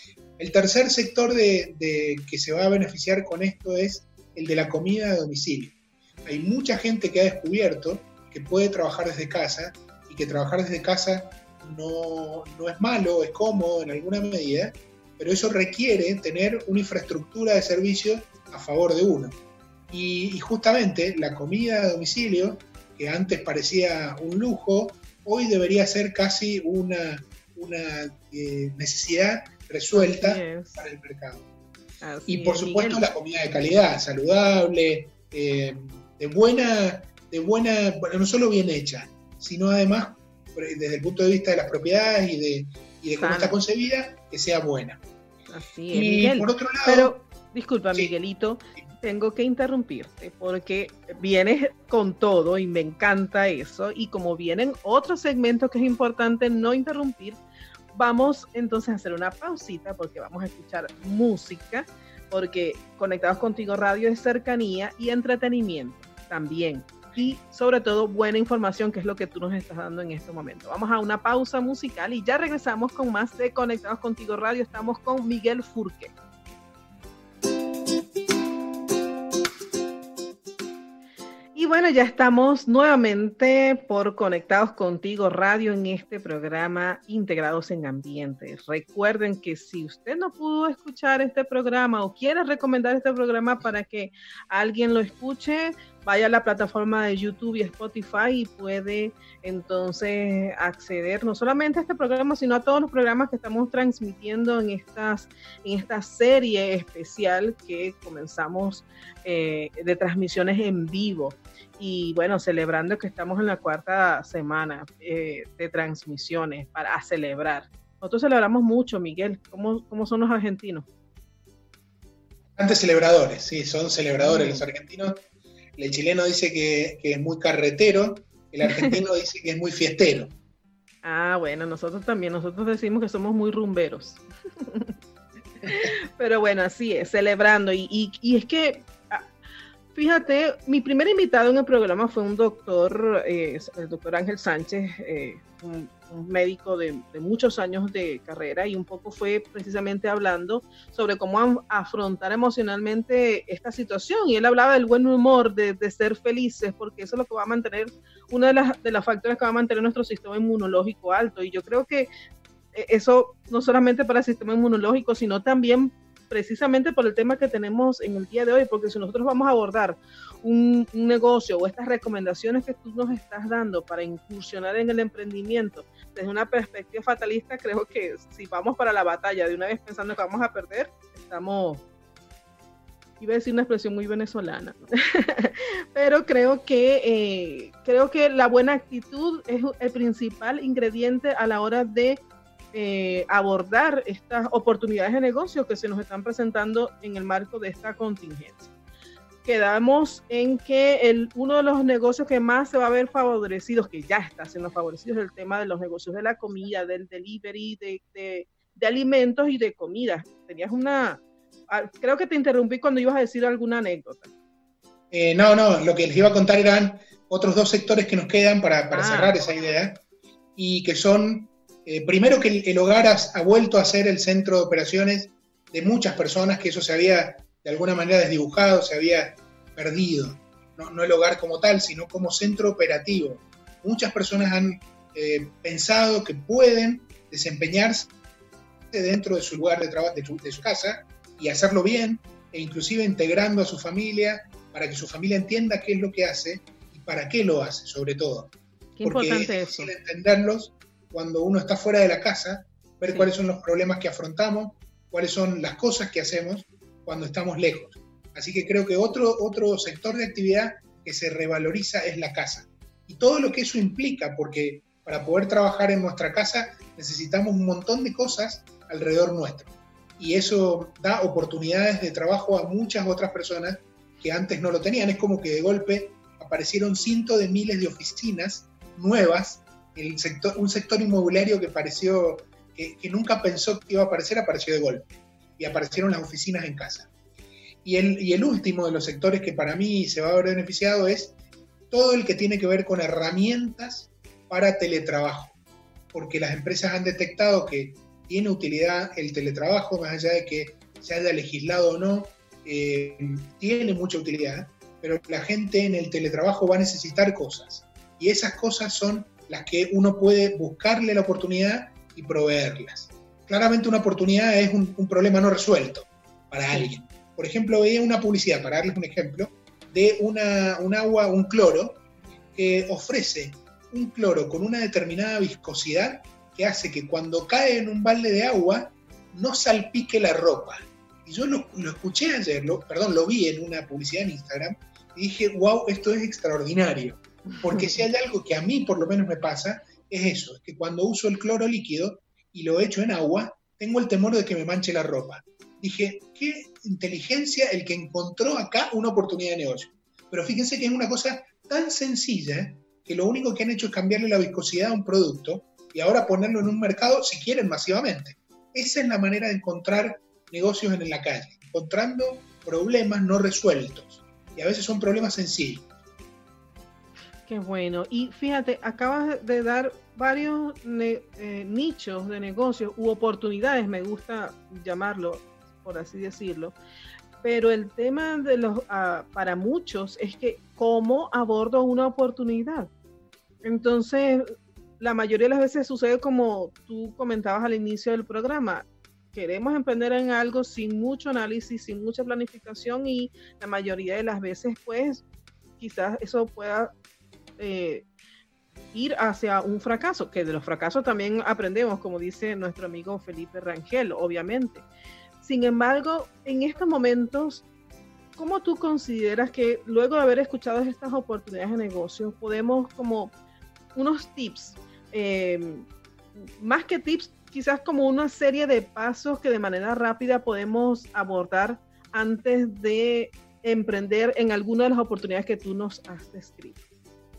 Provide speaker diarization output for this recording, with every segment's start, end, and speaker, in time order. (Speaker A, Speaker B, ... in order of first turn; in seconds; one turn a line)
Speaker A: 0.4-19.4
Speaker A: 19.9-31.5
Speaker B: 29.9-30.8
Speaker B: 32.0-33.1
Speaker A: 32.3-45.0
Speaker B: 43.2-43.6
Speaker B: 45.5-57.4
Speaker A: 45.9-47.1
Speaker B: 57.9-76.1
Speaker B: 81.5-120.9
Speaker A: 122.6-125.2
Speaker B: 124.2-124.7
Speaker A: 125.8-130.3
Speaker B: 131.0-134.9
Speaker B: 135.6-139.3
Speaker B: 139.9-162.1
Speaker B: 162.7-181.8
Speaker B: 183.2-198.7
Speaker B: 199.4-214.3
Speaker A: 215.1-220.0
Speaker B: 218.9-219.4
Speaker A: 220.6-238.1
Speaker A: 238.9-287.1
Speaker B: 249.0-249.9
Speaker A: 287.8-291.4
Speaker A: 291.9-295.6
Speaker A: 296.1-322.0
Speaker A: 322.5-365.9
Speaker B: 367.5-376.8
Speaker B: 377.4-382.9
Speaker B: 383.6-395.2
Speaker B: 395.8-396.9
Speaker B: 397.6-398.1
Speaker B: 398.9-404.9
Speaker B: 405.4-407.6
Speaker B: 408.4-413.3
Speaker B: 413.9-426.8